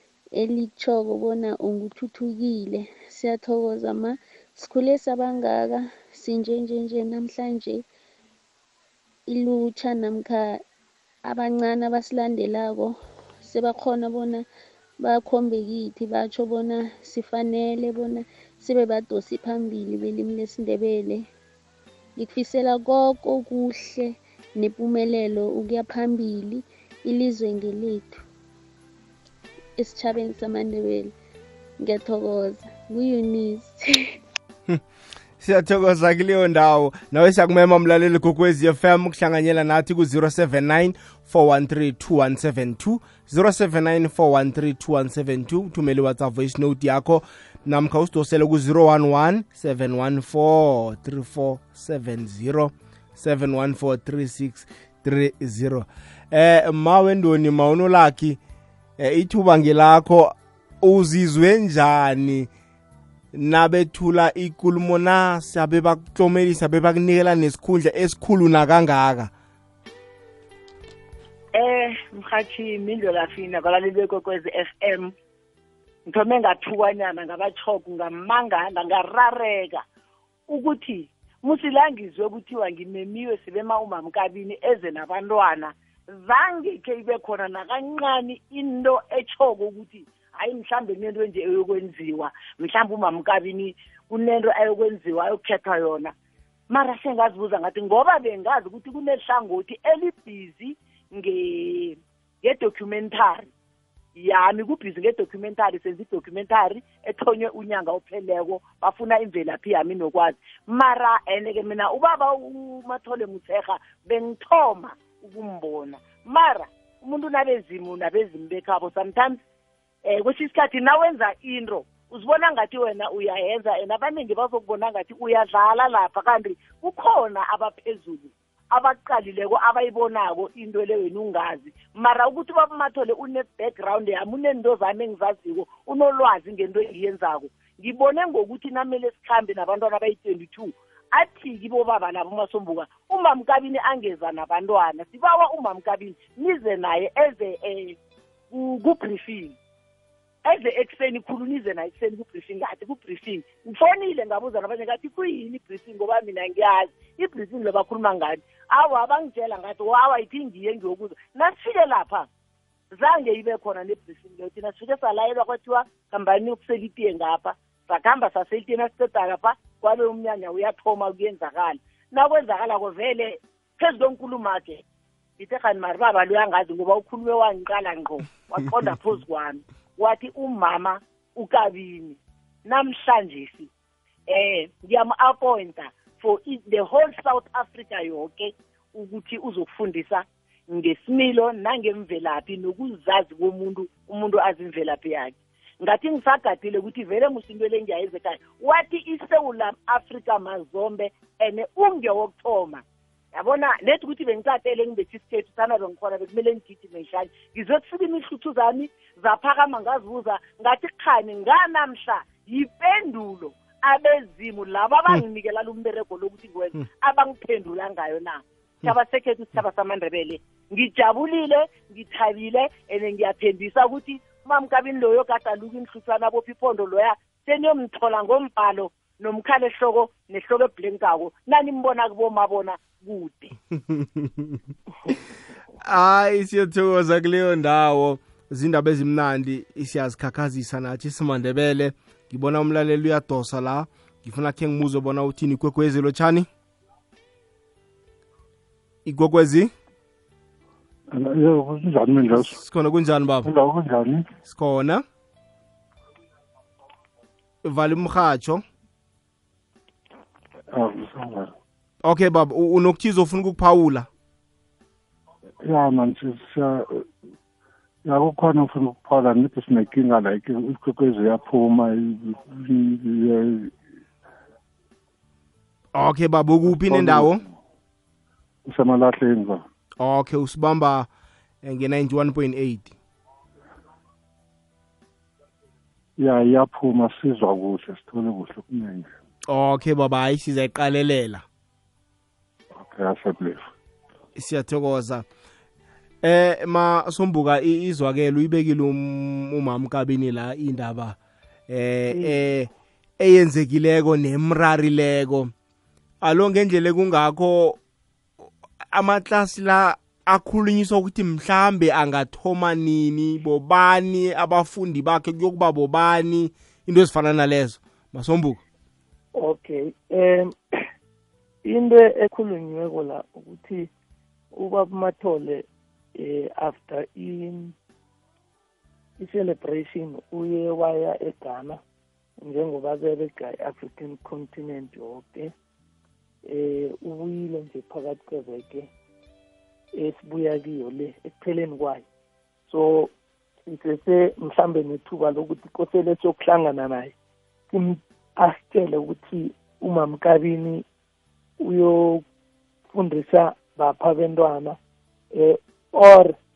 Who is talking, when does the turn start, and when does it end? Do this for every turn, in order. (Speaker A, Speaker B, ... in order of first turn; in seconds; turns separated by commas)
Speaker A: 0.3-7.8, Speaker A: 9.3-10.6, Speaker A: 11.2-14.4, Speaker A: 15.0-21.2, Speaker A: 22.2-28.2, Speaker A: 29.8-31.1, Speaker A: 31.8-34.2, Speaker B: 35.4-58.4, Speaker B: 59.0-62.5, Speaker B: 63.3-69.3, Speaker C: 71.5-75.1, Speaker C: 76.1-79.8, Speaker C: 80.5-96.1, Speaker C: 96.7-103.5, Speaker C: 104.2-119.4, Speaker C: 120.0-148.0, Speaker C: 148.5-149.6, Speaker C: 150.4-162.3, Speaker C: 162.9-174.8, Speaker C: 175.4-183.7, Speaker C: 184.3-202.8, Speaker C: 203.3-233.6, Speaker B: 233.9-234.6, Speaker B: 235.8-246.5, Speaker B: 249.1-249.7, Speaker D: 251.1-252.6, Speaker B: 252.6-253.5, Speaker D: 253.4-254.3, Speaker B: 254.4-255.0, Speaker B: 257.6-258.6, Speaker D: 260.7-261.5, Speaker B: 262.1-264.1, Speaker D: 265.6-267.1, Speaker D: 268.1-273.7, Speaker B: 275.9-277.4, Speaker D: 276.7-277.4, Speaker D: 278.7-279.6, Speaker B: 280.0-281.1, Speaker B: 281.6-282.9, Speaker D: 286.2-289.1, Speaker B: 289.5-291.4, Speaker D: 292.8-293.7, Speaker B: 294.4-295.2, Speaker B: 296.2-301.2, Speaker B: 301.7-305.5, Speaker E: 302.1-302.4, Speaker B: 306.2-307.8, Speaker B: 308.9-318.6, Speaker E: 319.4-320.8, Speaker E: 321.6-323.9, Speaker E: 324.5-327.7, Speaker E: 329.2-331.8, Speaker E: 332.4-335.5, Speaker E: 336.4-338.9, Speaker E: 339.9-342.0, Speaker E: 342.7-343.1, Speaker E: 343.7-347.1, Speaker E: 347.7-350.9, Speaker E: 351.6-352.2, Speaker E: 352.9-354.8, Speaker E: 355.3-356.4